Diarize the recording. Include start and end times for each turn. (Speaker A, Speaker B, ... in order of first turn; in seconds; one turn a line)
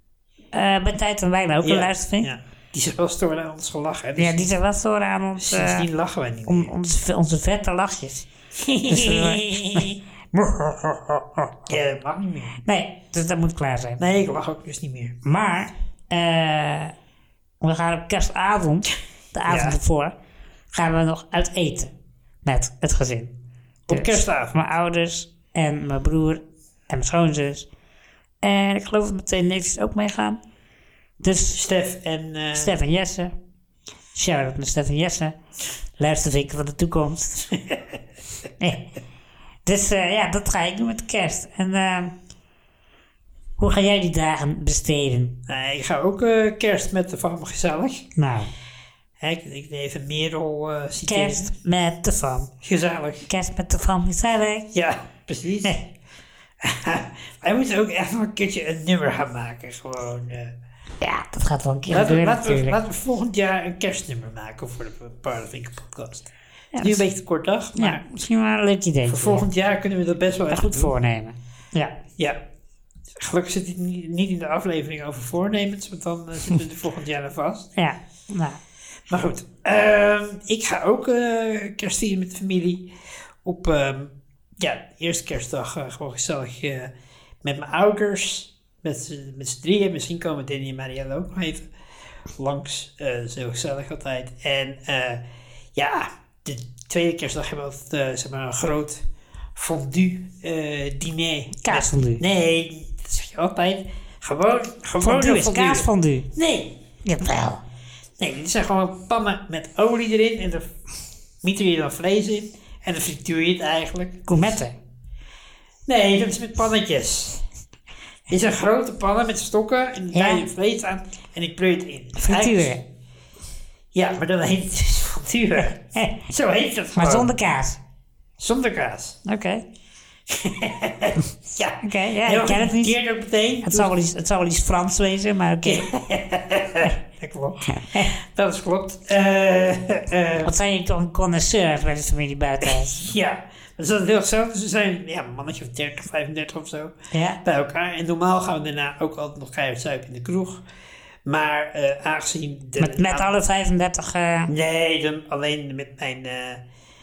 Speaker A: 0.5-2.3
Speaker B: 1.6-4.5
Speaker A: 4.2-5.9
Speaker B: 5.4-6.7
Speaker A: 6.5-8.3
Speaker B: 8.6-10.0
Speaker A: 8.9-9.9
Speaker B: 11.7-12.6
Speaker A: 12.6-14.0
Speaker B: 14.0-15.2
Speaker A: 15.2-16.9
Speaker A: 17.6-20.1
Speaker B: 19.5-19.8
Speaker A: 20.7-21.9
Speaker A: 22.4-23.3
Speaker B: 23.9-24.6
Speaker A: 23.9-27.7
Speaker A: 28.4-30.4
Speaker A: 31.2-31.6
Speaker B: 31.5-32.7
Speaker A: 32.5-33.3
Speaker A: 34.1-35.4
Speaker A: 36.0-37.5
Speaker A: 38.6-38.9
Speaker A: 39.7-42.1
Speaker A: 43.6-45.4
Speaker B: 45.5-48.1
Speaker A: 48.2-48.5
Speaker B: 49.2-51.5
Speaker A: 51.1-52.5
Speaker B: 52.6-53.3
Speaker A: 53.3-54.7
Speaker B: 54.7-55.8
Speaker B: 56.6-60.5
Speaker A: 61.0-62.8
Speaker B: 61.9-68.0
Speaker A: 66.7-67.0
Speaker A: 67.8-69.5
Speaker B: 69.1-70.9
Speaker A: 70.5-72.0
Speaker B: 73.2-77.7
Speaker A: 77.8-78.6
Speaker B: 79.1-82.9
Speaker B: 83.4-91.7
Speaker B: 92.4-95.2
Speaker B: 95.8-99.0
Speaker B: 99.6-106.8
Speaker A: 101.6-102.2
Speaker A: 105.0-106.3
Speaker A: 107.0-107.6
Speaker B: 108.2-110.7
Speaker B: 111.4-114.3
Speaker A: 114.3-114.8
Speaker B: 115.9-117.4
Speaker B: 118.3-122.8
Speaker A: 120.1-120.5
Speaker A: 122.2-122.8
Speaker B: 123.9-127.3
Speaker A: 127.0-127.8
Speaker B: 128.4-129.2
Speaker A: 129.2-129.6
Speaker B: 130.3-133.9
Speaker A: 131.8-132.9
Speaker A: 133.6-135.9
Speaker B: 135.6-140.5
Speaker A: 140.4-143.0
Speaker B: 142.6-150.6
Speaker A: 147.1-147.4
Speaker B: 151.3-153.3
Speaker A: 152.8-154.5
Speaker B: 154.5-156.6